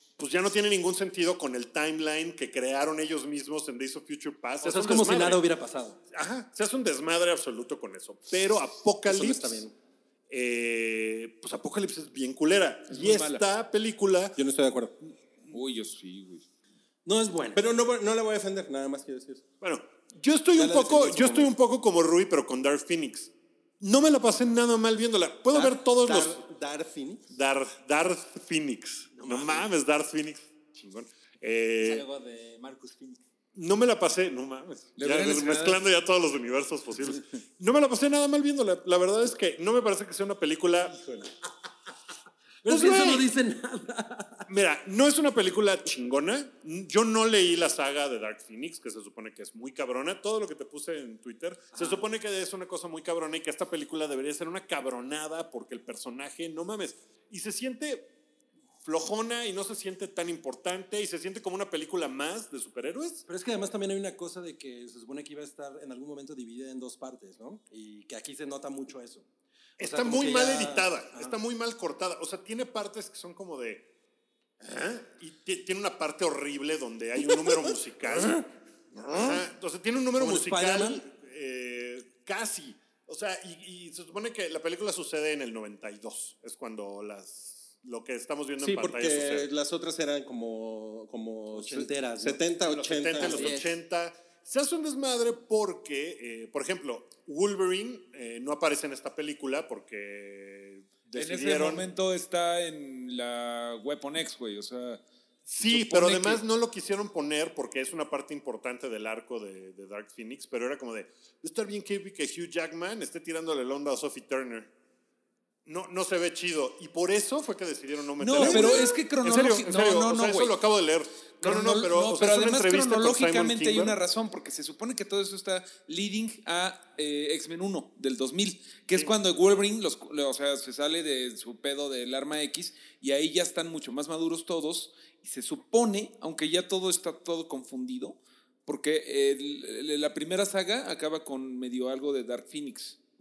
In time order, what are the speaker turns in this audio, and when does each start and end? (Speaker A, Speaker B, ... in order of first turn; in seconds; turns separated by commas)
Speaker A: 0.2-5.5, Speaker B: 4.6-6.0, Speaker A: 6.1-9.7, Speaker C: 9.0-9.7, Speaker A: 10.3-14.4, Speaker D: 12.9-13.4, Speaker C: 14.4-14.9, Speaker D: 15.5-16.4, Speaker B: 17.1-17.6, Speaker C: 17.5-19.4, Speaker A: 19.6-26.4, Speaker C: 20.6-21.5, Speaker C: 25.5-27.3, Speaker A: 27.3-32.0, Speaker B: 29.2-29.7, Speaker E: 31.8-33.2, Speaker A: 33.5-41.3, Speaker D: 35.0-35.8, Speaker B: 42.6-44.5, Speaker A: 42.7-43.3, Speaker A: 44.5-58.1, Speaker B: 51.8-52.0, Speaker A: 58.8-63.2, Speaker B: 63.3-69.3, Speaker B: 69.8-71.4, Speaker A: 69.8-73.9, Speaker A: 74.6-89.5, Speaker B: 80.2-81.0, Speaker C: 88.6-93.6, Speaker B: 91.5-92.5, Speaker A: 92.6-101.9, Speaker E: 93.2-93.7, Speaker D: 101.2-105.0, Speaker A: 105.5-114.7, Speaker D: 105.6-106.4, Speaker A: 115.7-124.0, Speaker D: 118.2-120.6, Speaker C: 118.4-118.8, Speaker D: 121.4-143.0